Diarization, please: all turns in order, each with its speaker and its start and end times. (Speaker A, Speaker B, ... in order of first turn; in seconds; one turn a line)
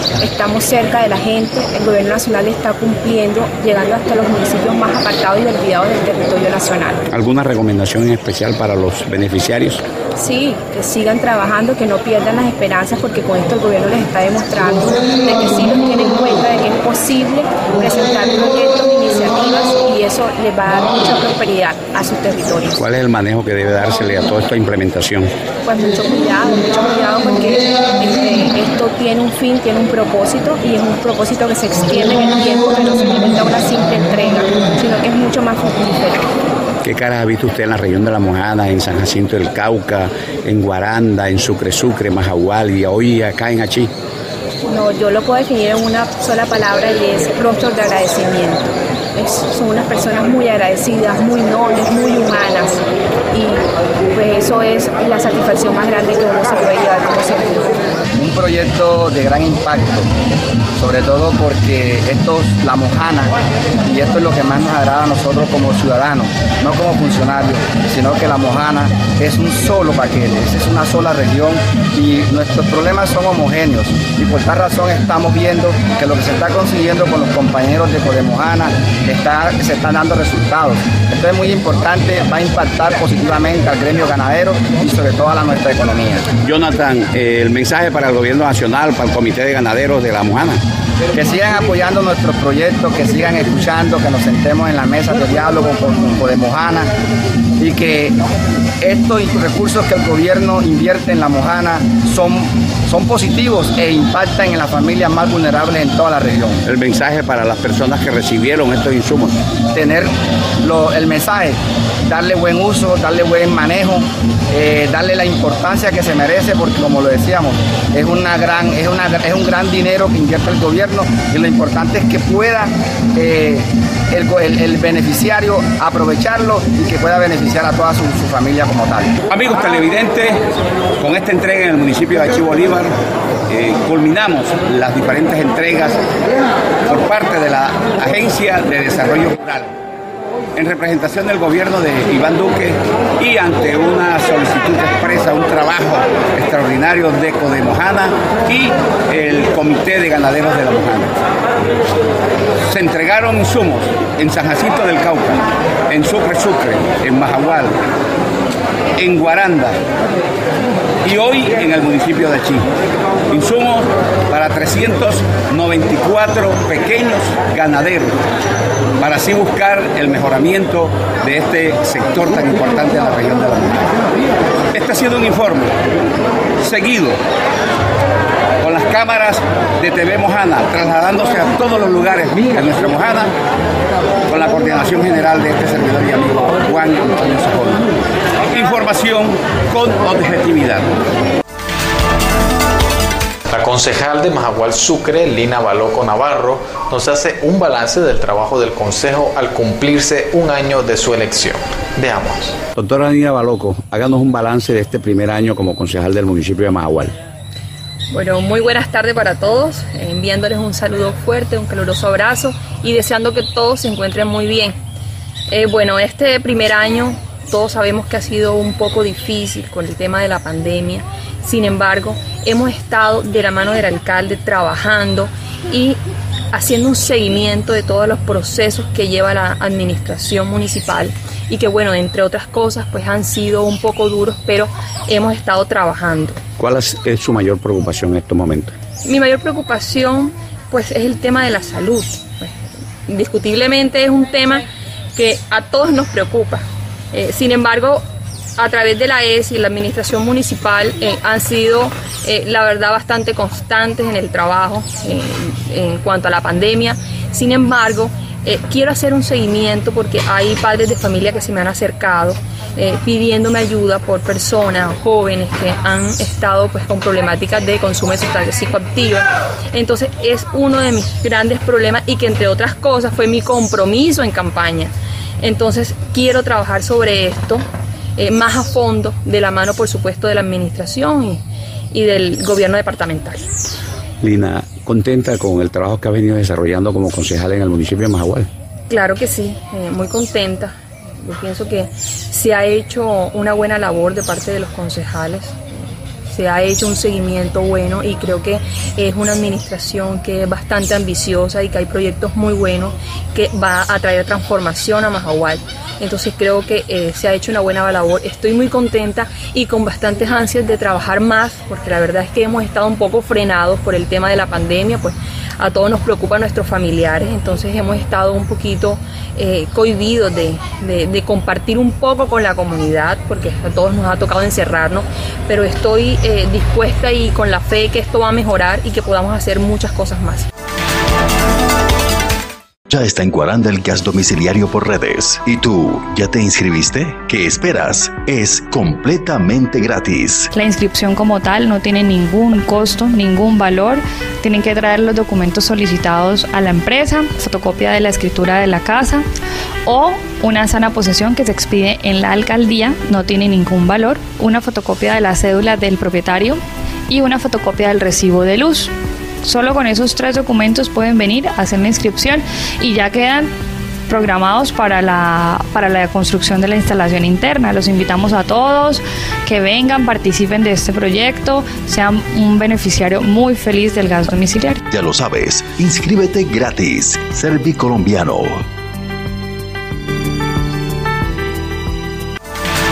Speaker A: 0.2-7.1
Speaker B: 7.1-9.8
Speaker A: 10.2-22.8
Speaker B: 22.8-25.3
Speaker A: 25.6-36.3
Speaker B: 36.8-43.9
Speaker A: 44.6-57.8
Speaker C: 58.1-60.1
Speaker C: 60.8-63.3
Speaker C: 63.8-86.3
Speaker B: 86.4-90.6
Speaker C: 91.1-96.9
Speaker C: 97.6-98.2
Speaker C: 98.8-106.6
Speaker B: 106.6-109.4
Speaker C: 109.7-129.1
Speaker B: 129.3-130.4
Speaker B: 131.0-132.9
Speaker B: 133.5-136.0
Speaker B: 136.8-139.7
Speaker B: 140.6-151.1
Speaker B: 152.7-157.8
Speaker B: 159.0-159.8
Speaker B: 161.0-162.7
Speaker B: 163.3-168.2
Speaker B: 169.0-173.8
Speaker B: 174.7-175.8
Speaker B: 176.6-177.2
Speaker B: 178.6-183.3
Speaker B: 184.3-187.8
Speaker B: 188.5-190.9
Speaker D: 193.5-202.6
Speaker B: 202.8-207.1
Speaker E: 208.1-214.8
Speaker E: 215.5-226.0
Speaker E: 226.5-236.4
Speaker B: 236.6-238.7
Speaker E: 239.0-244.6
Speaker E: 245.1-248.0
Speaker E: 248.6-277.6
Speaker E: 278.2-283.4
Speaker B: 284.2-288.5
Speaker E: 288.9-295.6
Speaker E: 296.2-330.5
Speaker F: 332.9-340.5
Speaker G: 340.5-349.2
Speaker G: 349.9-358.9
Speaker G: 359.4-363.5
Speaker G: 364.1-374.8
Speaker F: 374.9-378.6